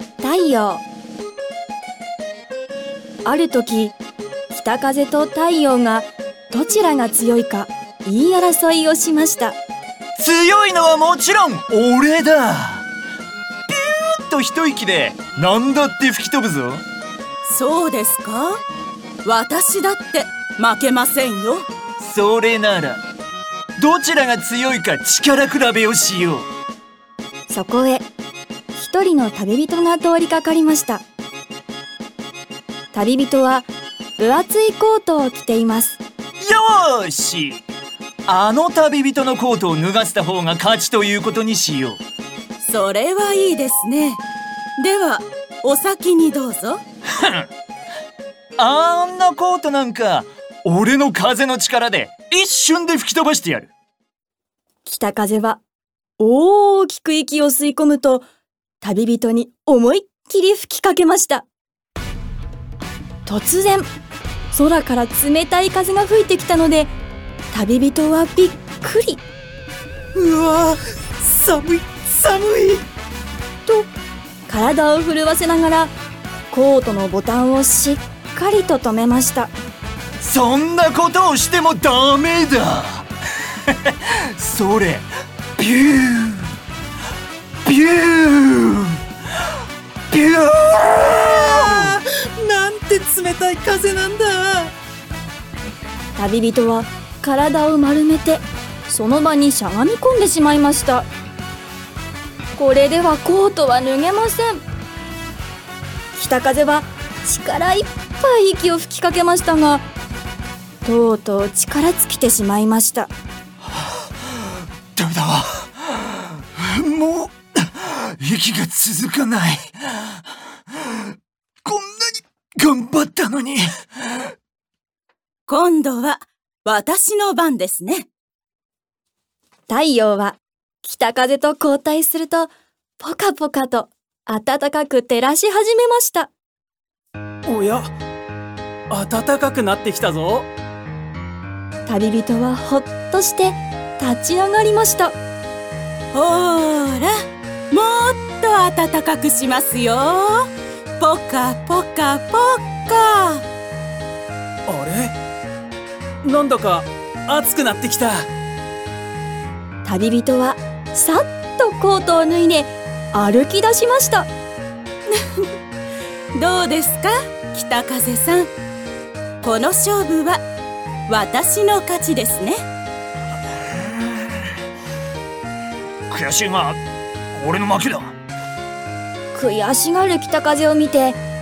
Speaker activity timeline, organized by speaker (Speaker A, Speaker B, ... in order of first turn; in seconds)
Speaker A: 0.2-0.8, 3.2-3.9, 4.5-9.6, 27.5-28.0, 28.7-31.0, 32.9-36.0, 54.9-55.6, 56.2-58.2, 58.8-61.5, 63.2-63.9, 64.5-66.9, 67.5-69.2, 74.5-75.9, 76.5-79.5, 96.2-101.1, 102.5-104.6, 106.1-109.8, 110.8-113.1, 129.7-136.3, 141.9-145.2, 159.8-164.3, 179.3-181.2
Speaker B: 10.2-12.8, 13.7-16.8, 22.0-23.0, 23.8-26.5, 36.4-37.6, 38.3-42.0, 47.1-47.5, 48.6-53.7, 80.2-83.0, 83.7-86.5, 87.6-89.0, 90.1-92.0, 115.0-120.2, 121.6-124.2, 176.1-176.8, 177.3-178.1
Speaker C: 17.4-18.6, 19.2-21.7, 42.6-44.2, 44.8-46.8, 125.5-128.1, 146.1-147.1, 147.7-153.4, 165.1-165.5, 166.3-168.5, 169.4-170.4, 171.1-172.6
Speaker D: 70.2-72.8, 91.9-94.7, 137.4-137.9, 138.9-140.5, 154.7-155.2, 156.2-158.3